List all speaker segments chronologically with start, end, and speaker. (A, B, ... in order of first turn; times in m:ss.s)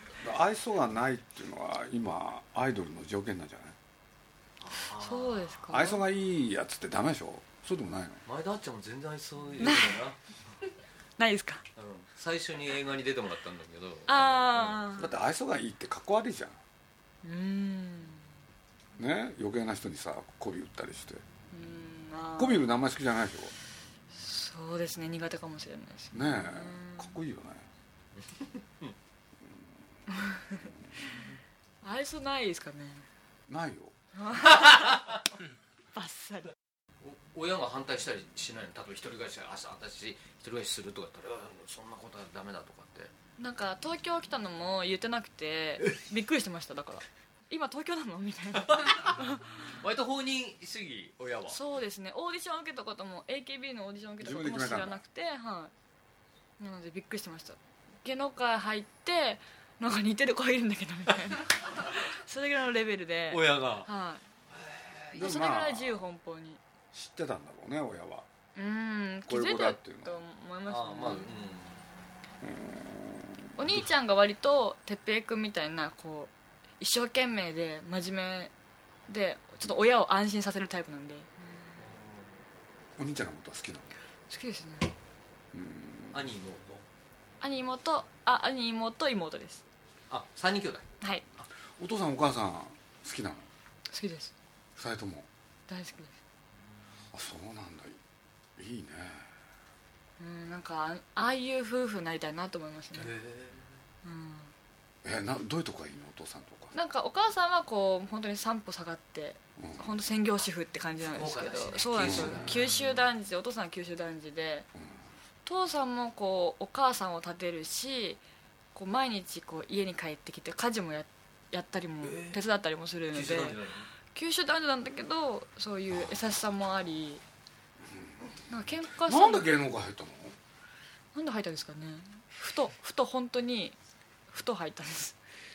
0:00.2-0:03.8 A
0:04.6-0:05.6 B
0:05.0-0:06.0 C
0:05.7-0:08.2 A
0:08.2-0:10.2 B
0:09.6-0:10.1 C
0:11.2-0:11.6 C
0:11.8-0:14.9 B
0:14.1-0:15.1 C
0:15.0-0:16.6 A
0:17.2-0:18.2 C
0:19.0-0:21.2 A
0:21.5-0:22.6 C
0:22.4-0:23.5 A
0:24.1-0:27.1 C
0:26.1-0:27.7 A
0:28.2-0:28.9 B
0:30.1-0:31.2 C
0:31.8-0:33.0 C
0:33.5-0:33.9 A
0:34.2-0:35.0 C
0:35.9-0:36.5 C
0:37.0-0:43.1 B
0:43.4-0:49.6 C
0:48.7-0:51.6 B
0:51.5-0:55.7 C
0:54.2-0:55.0 A
0:56.6-1:04.2 C
1:03.3-1:03.9 B
1:04.6-1:05.1 B
1:05.1-1:06.0 A
1:05.1-1:06.6 C
1:06.9-1:08.3 A
1:08.5-1:11.3 C
1:09.2-1:10.2 A
1:10.7-1:11.8 B
1:12.4-1:13.7 A
1:13.6-1:18.5 C
1:19.1-1:21.7 C
1:21.8-1:22.4 B
1:23.0-1:23.9 A
1:24.3-1:24.9 C
1:25.5-1:26.3 A
1:26.1-1:26.8 B
1:27.4-1:29.6 C
1:30.1-1:30.9 B
1:31.8-1:33.5 A
1:33.9-1:34.3 C
1:34.8-1:35.3 A
1:35.7-1:36.1 C
1:37.1-1:38.0 A
1:38.6-1:39.3 A
1:40.2-1:43.1 C
1:42.9-1:43.7 B
1:44.0-1:44.5 C
1:45.0-1:46.7 A
1:46.7-1:54.7 C
1:49.6-1:49.9 A
1:51.1-1:53.0 B
1:52.0-1:52.6 A
1:55.4-1:58.2 C
1:58.7-2:03.6 C
2:02.0-2:02.4 B
2:03.1-2:03.9 B
2:04.1-2:07.2 C
2:08.5-2:09.5 C
2:09.0-2:10.4 A
2:11.1-2:13.8 C
2:14.3-2:15.2 C